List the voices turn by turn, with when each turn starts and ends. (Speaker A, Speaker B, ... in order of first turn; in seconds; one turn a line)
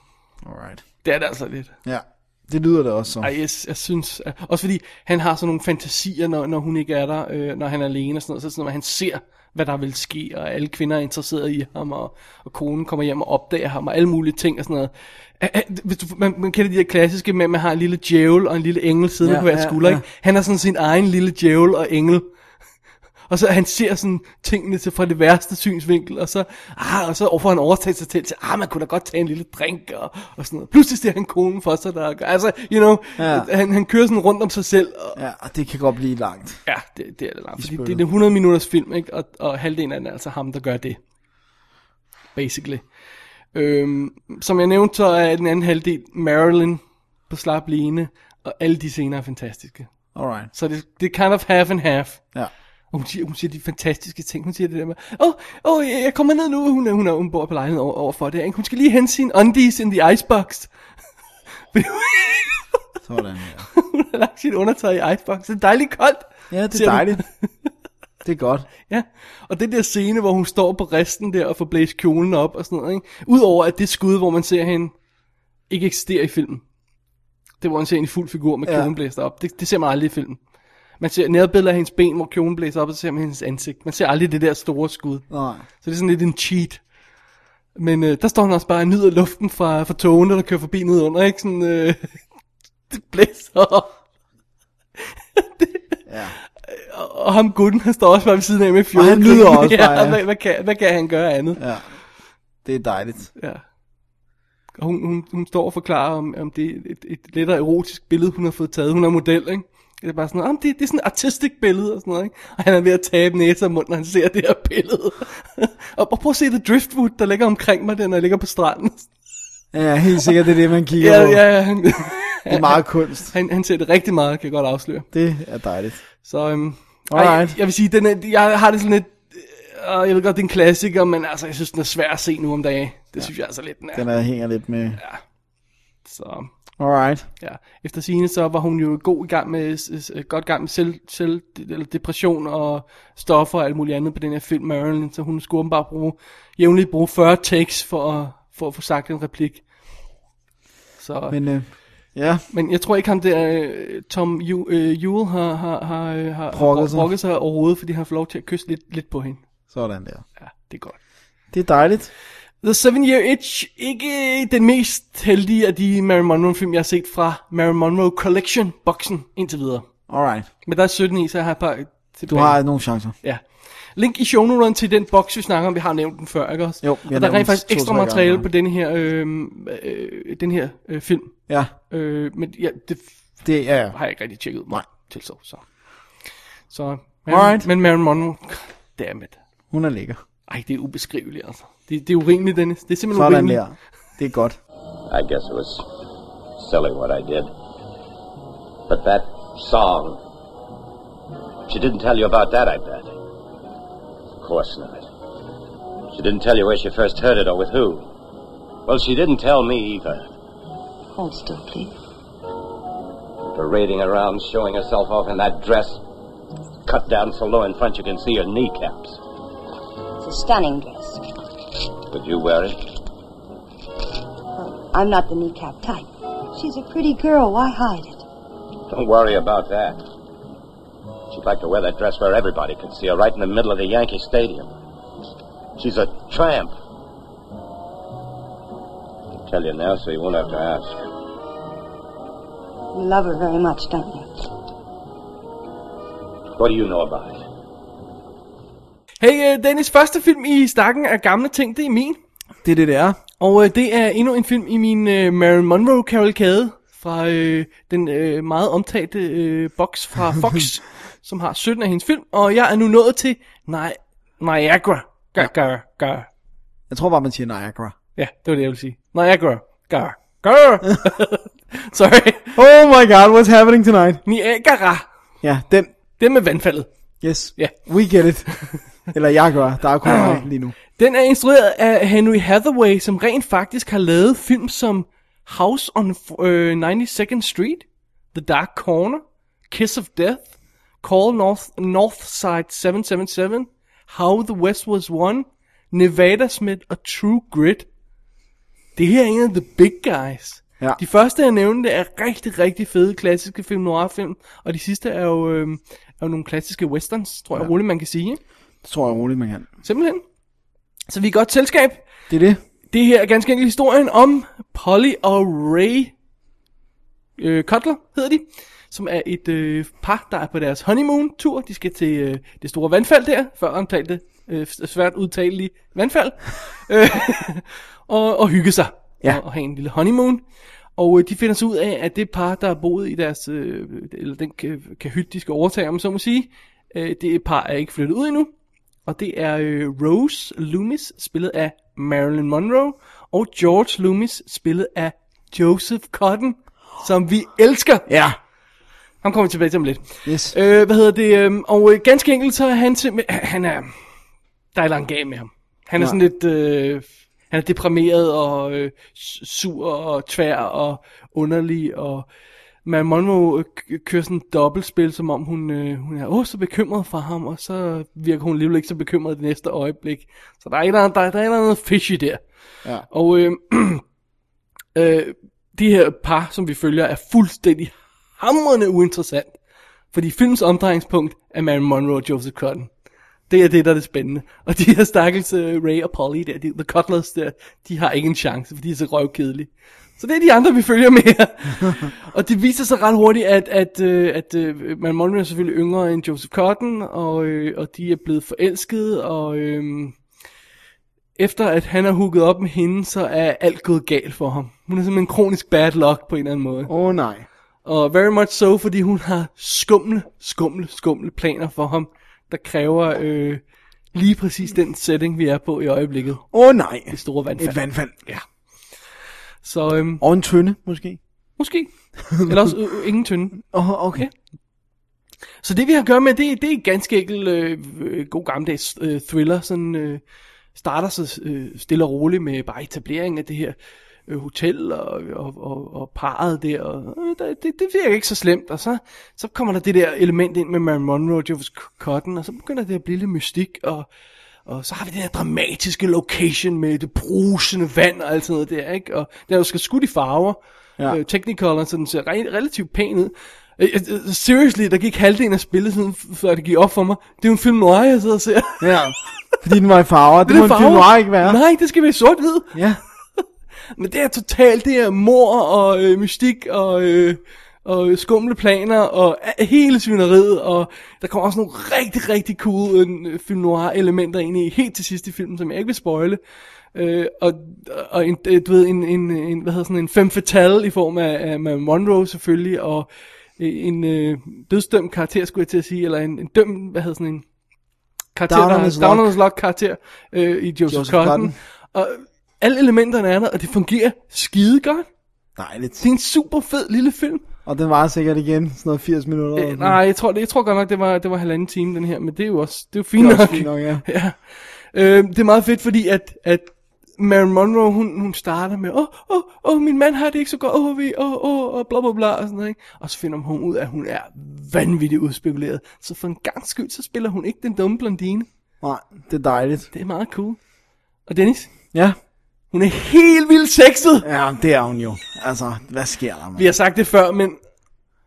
Speaker A: 0.4-0.8
Speaker B: 1.0-1.7
Speaker A: 1.9-3.3
Speaker B: 3.2-22.3
Speaker A: 19.2-20.0
Speaker B: 23.3-35.2
Speaker A: 33.2-33.5
Speaker A: 35.1-36.6
Speaker B: 36.7-41.0
Speaker A: 37.6-38.0
Speaker B: 42.4-42.9
Speaker B: 43.5-49.9
Speaker A: 50.1-50.5
Speaker B: 50.5-52.2
Speaker B: 52.9-60.7
Speaker B: 61.7-62.6
Speaker A: 63.1-63.7
Speaker B: 63.7-67.5
Speaker A: 66.5-67.2
Speaker A: 68.2-68.7
Speaker B: 68.9-74.9
Speaker B: 75.7-76.6
Speaker B: 77.6-80.4
Speaker A: 78.7-78.9
Speaker B: 81.0-85.3
Speaker A: 85.3-85.6
Speaker B: 85.8-86.8
Speaker B: 87.8-92.2
Speaker B: 92.9-94.0
Speaker B: 95.4-95.8
Speaker A: 96.1-96.4
Speaker B: 96.7-101.6
Speaker A: 98.9-100.2
Speaker A: 101.6-101.9
Speaker A: 102.7-103.3
Speaker B: 103.4-103.6
Speaker B: 104.8-119.1
Speaker A: 119.7-121.5
Speaker B: 121.0-125.1
Speaker A: 122.5-123.3
Speaker A: 125.1-126.0
Speaker B: 126.2-134.0
Speaker A: 127.1-127.6
Speaker A: 133.9-135.0
Speaker B: 136.1-136.5
Speaker A: 136.8-137.3
Speaker B: 137.4-149.6
Speaker B: 151.0-151.4
Speaker A: 151.3-152.4
Speaker B: 152.5-159.4
Speaker A: 156.5-157.1
Speaker A: 159.7-160.2
Speaker B: 160.4-161.0
Speaker A: 161.5-162.1
Speaker B: 162.6-169.9
Speaker A: 170.1-170.5
Speaker B: 170.7-172.6
Speaker A: 172.3-173.2
Speaker B: 174.0-183.1
Speaker A: 176.8-178.5
Speaker A: 183.4-184.0
Speaker B: 183.9-185.6
Speaker B: 186.7-189.4
Speaker A: 187.3-187.7
Speaker A: 189.7-190.2
Speaker B: 190.5-193.6
Speaker A: 193.1-194.6
Speaker C: 195.1-195.8
Speaker C: 196.6-197.5
Speaker C: 198.9-200.2
Speaker C: 201.7-203.1
Speaker C: 204.4-205.1
Speaker C: 206.1-208.1
Speaker C: 208.9-210.3
Speaker D: 211.1-212.0
Speaker C: 213.5-216.0
Speaker C: 216.8-219.2
Speaker D: 220.2-221.2
Speaker C: 222.1-222.8
Speaker D: 224.5-228.3
Speaker C: 228.9-230.0
Speaker C: 231.3-234.7
Speaker C: 235.8-236.8
Speaker C: 239.5-241.1
Speaker D: 242.9-244.5
Speaker C: 246.5-247.4
Speaker B: 249.2-252.2
Speaker A: 252.6-253.2
Speaker B: 253.4-266.3
Speaker A: 266.9-267.9
Speaker B: 268.2-272.6
Speaker A: 272.6-274.2
Speaker B: 274.2-275.1
Speaker A: 275.4-275.9
Speaker B: 276.2-276.9
Speaker A: 277.2-280.8
Speaker B: 280.1-290.5
Speaker B: 291.0-297.9
Speaker B: 299.0-308.4
Speaker A: 308.8-309.7
Speaker B: 309.8-310.2
Speaker B: 311.1-312.0
Speaker A: 312.3-312.6
Speaker B: 312.9-316.1
Speaker B: 317.4-330.4
Speaker B: 331.0-338.5
Speaker B: 339.1-348.1
Speaker A: 348.1-348.4
Speaker B: 349.2-353.9
Speaker A: 350.3-350.6
Speaker B: 354.7-362.3
Speaker B: 362.9-372.4
Speaker B: 373.1-374.0
Speaker B: 374.9-379.6
Speaker B: 380.1-382.9
Speaker B: 383.5-400.2
Speaker B: 401.4-406.9
Speaker A: 406.9-407.5
Speaker B: 407.9-413.6
Speaker B: 414.1-416.5
Speaker A: 416.5-418.2
Speaker B: 417.1-418.4
Speaker B: 419.6-420.2
Speaker A: 420.2-421.2
Speaker B: 421.6-424.3
Speaker A: 423.6-424.3
Speaker B: 425.6-430.2
Speaker B: 430.8-433.8
Speaker B: 434.3-444.1
Speaker B: 444.7-458.9
Speaker A: 458.8-461.6
Speaker B: 460.5-462.8
Speaker A: 462.7-463.0
Speaker B: 464.0-476.4
Speaker B: 476.9-487.4
Speaker B: 488.4-495.1
Speaker A: 488.5-489.3
Speaker A: 490.9-491.6
Speaker A: 495.6-496.0
Speaker B: 496.0-497.4
Speaker A: 497.7-500.0
Speaker B: 499.6-518.5
Speaker A: 503.2-504.1
Speaker A: 518.8-519.9
Speaker B: 519.9-520.6
Speaker B: 521.3-521.7
Speaker B: 522.7-524.3
Speaker A: 524.2-526.7
Speaker B: 526.6-527.6